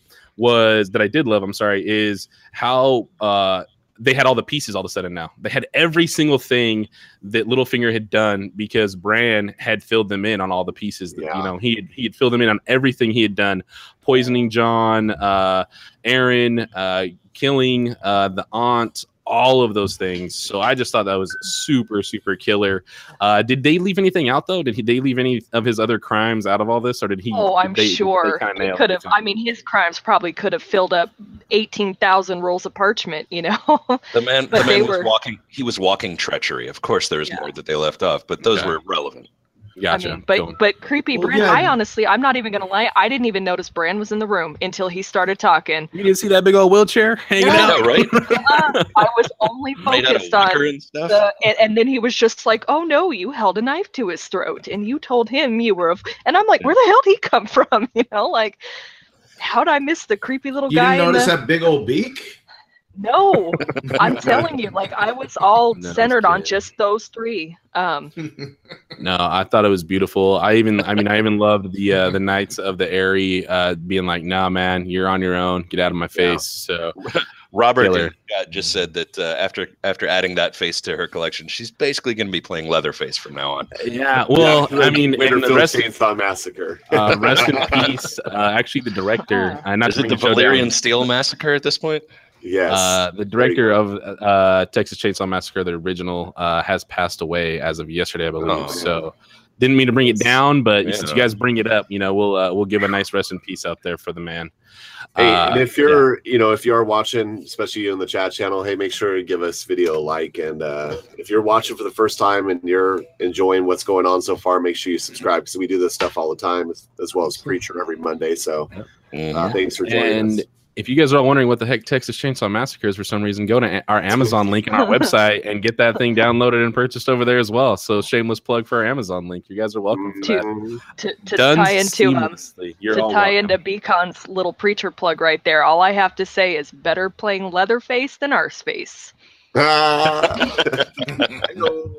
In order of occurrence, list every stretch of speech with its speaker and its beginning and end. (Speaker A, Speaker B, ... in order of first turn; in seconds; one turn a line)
Speaker A: 0.4-29.2
Speaker B: 11.2-11.5
Speaker C: 27.3-35.1
Speaker D: 34.1-39.3
Speaker A: 38.4-38.7
Speaker A: 39.8-40.5
Speaker C: 39.9-45.9
Speaker E: 41.1-41.8
Speaker A: 45.9-49.0
Speaker C: 47.4-58.6
Speaker D: 47.4-48.4
Speaker D: 49.8-51.2
Speaker C: 59.4-61.3
Speaker E: 60.7-62.4
Speaker C: 63.0-68.1
Speaker E: 63.8-64.4
Speaker A: 65.8-66.5
Speaker E: 68.2-68.5
Speaker A: 69.0-77.0
Speaker D: 77.0-83.7
Speaker A: 77.8-78.1
Speaker A: 83.8-85.8
Speaker B: 84.3-87.9
Speaker A: 86.9-90.7
Speaker C: 89.2-89.6
Speaker D: 89.8-92.1
Speaker B: 92.4-93.7
Speaker A: 92.7-104.5
Speaker D: 98.5-98.9
Speaker D: 100.8-101.3
Speaker A: 105.1-106.0
Speaker B: 105.2-118.7
Speaker D: 119.1-119.6
Speaker B: 119.3-120.4
Speaker A: 119.8-130.5
Speaker B: 129.9-130.8
Speaker C: 130.2-132.3
Speaker A: 131.3-133.5
Speaker C: 132.9-139.1
Speaker B: 139.5-140.8